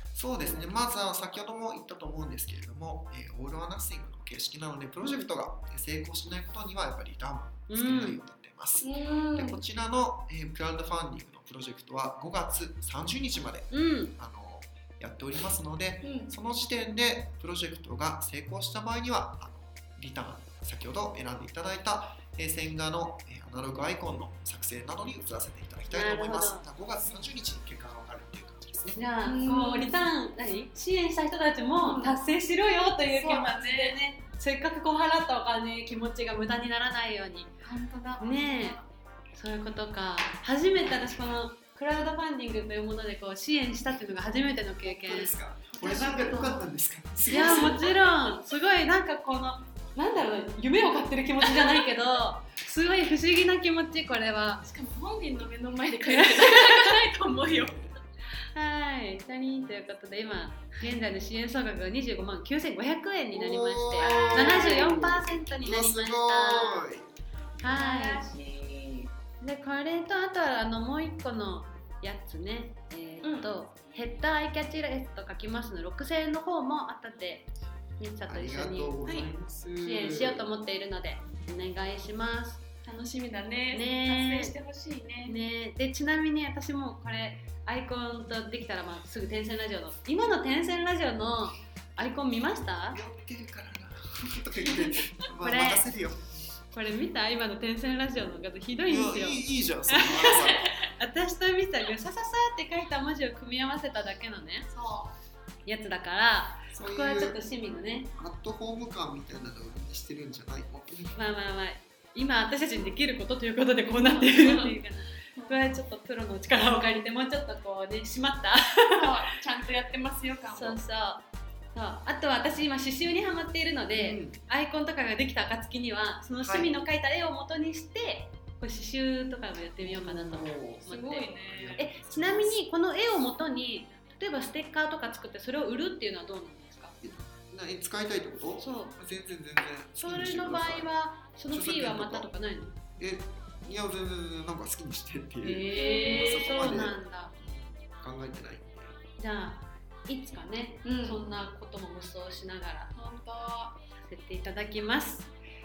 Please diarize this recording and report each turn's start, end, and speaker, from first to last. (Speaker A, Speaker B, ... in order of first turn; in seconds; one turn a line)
Speaker A: 0.1-29.0
Speaker B: 7.7-8.2
Speaker C: 8.8-9.6
Speaker B: 13.7-14.1
Speaker C: 16.0-16.3
Speaker B: 25.9-26.6
Speaker B: 28.9-37.5
Speaker C: 29.2-30.1
Speaker C: 31.8-32.2
Speaker C: 33.1-34.0
Speaker C: 37.6-38.9
Speaker B: 38.2-38.8
Speaker B: 39.3-45.4
Speaker A: 44.9-47.9
Speaker C: 45.7-46.6
Speaker C: 47.3-47.9
Speaker B: 47.3-54.6
Speaker C: 51.4-51.9
Speaker C: 54.6-57.9
Speaker B: 56.1-57.0
Speaker A: 57.5-57.9
Speaker B: 58.5-66.9
Speaker A: 63.3-67.1
Speaker C: 64.0-65.0
Speaker B: 67.6-68.3
Speaker C: 67.6-69.1
Speaker B: 69.4-79.0
Speaker C: 73.2-73.5
Speaker A: 78.3-80.5
Speaker B: 79.8-82.6
Speaker C: 82.8-85.4
Speaker B: 83.7-84.5
Speaker B: 85.3-93.0
Speaker A: 92.9-96.5
Speaker B: 95.4-95.9
Speaker B: 96.7-104.7
Speaker A: 98.8-100.7
Speaker C: 104.7-105.2
Speaker B: 105.7-108.1
Speaker A: 106.7-107.4
Speaker A: 108.2-111.4
Speaker B: 111.2-119.2
Speaker C: 113.9-114.8
Speaker C: 115.3-115.6
Speaker C: 119.0-120.8
Speaker B: 120.5-137.0
Speaker A: 123.9-124.4
Speaker A: 126.4-126.7
Speaker A: 129.8-132.6
Speaker C: 130.9-131.8
Speaker A: 137.0-140.9
Speaker B: 138.6-138.9
Speaker B: 140.0-142.8
Speaker A: 141.5-142.3
Speaker A: 143.0-149.0
Speaker B: 145.4-147.3
Speaker C: 145.7-146.5
Speaker B: 149.2-152.9
Speaker C: 150.8-151.2
Speaker C: 152.9-153.8
Speaker B: 154.0-155.3